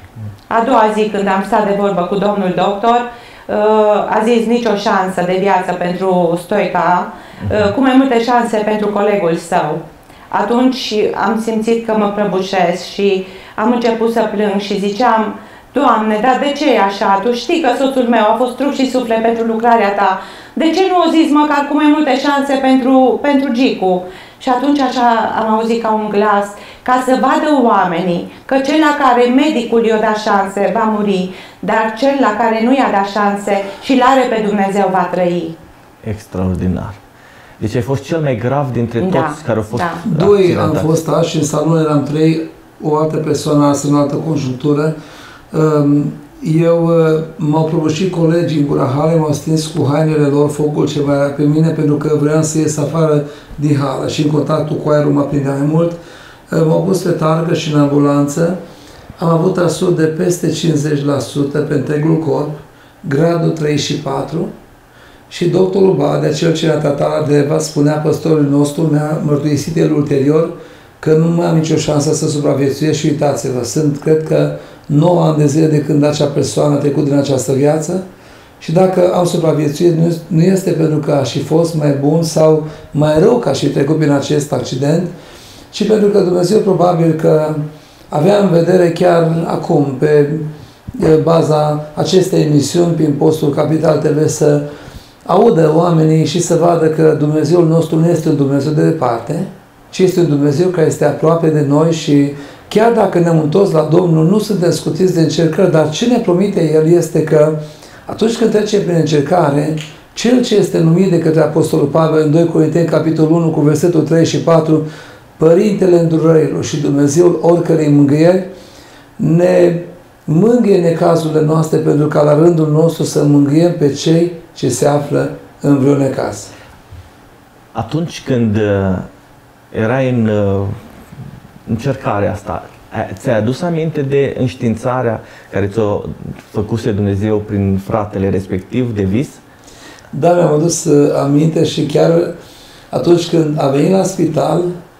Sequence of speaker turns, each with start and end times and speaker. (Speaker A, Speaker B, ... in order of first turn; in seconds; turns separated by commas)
Speaker A: 0.5-35.5, Speaker B: 36.0-37.0, Speaker B: 37.6-41.0, Speaker A: 39.0-40.0, Speaker C: 40.0-44.9, Speaker C: 45.5-56.0, Speaker C: 56.5-58.6, Speaker C: 59.2-64.5, Speaker C: 65.3-78.0, Speaker C: 78.6-85.1, Speaker C: 85.7-94.7, Speaker C: 95.2-114.8, Speaker C: 115.4-118.5, Speaker C: 119.2-126.5, Speaker B: 127.7-129.1, Speaker B: 129.7-130.8, Speaker B: 131.7-139.4, Speaker C: 140.1-142.3, Speaker C: 142.9-144.7